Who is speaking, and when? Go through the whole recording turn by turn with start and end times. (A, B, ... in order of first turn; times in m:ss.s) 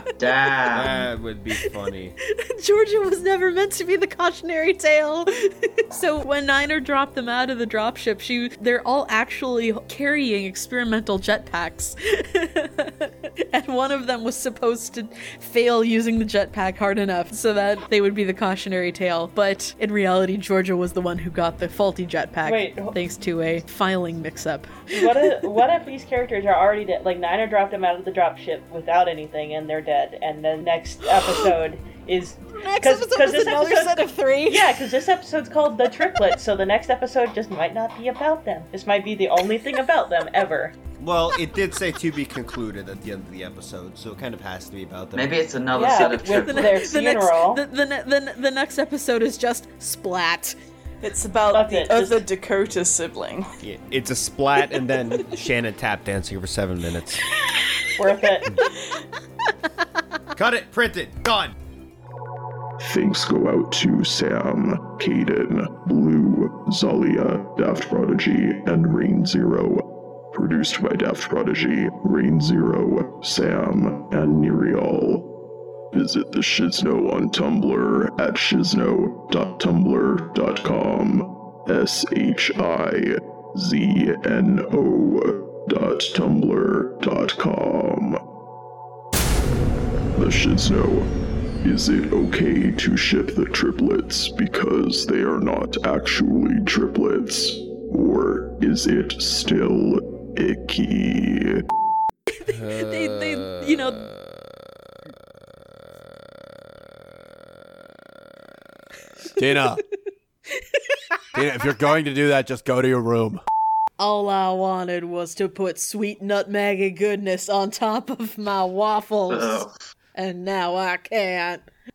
0:00.2-0:01.1 A
0:00.7-0:02.2 B
0:02.3-0:25.4 C
0:22.4-0:23.0 D
0:24.9-0:40.8 D
0:31.1-0:31.5 C
0:32.5-0:34.8 C
0:41.0-0:45.4 B
0:45.1-0:46.8 A
0:45.7-0:47.6 D
0:46.1-0:50.6 C
0:51.0-0:53.5 E
0:51.5-0:52.2 D
0:53.6-0:57.2 B
0:58.0-0:58.6 D
1:00.4-1:01.6 B
1:02.8-1:15.3 F
1:15.9-1:28.2 F
1:30.2-1:31.1 F
1:31.6-1:41.6 F
1:42.3-1:44.1 C
1:42.7-1:43.6 B
1:49.4-1:49.8 G
1:51.3-1:53.4 G
1:54.0-2:01.6 C
1:59.3-1:59.7 A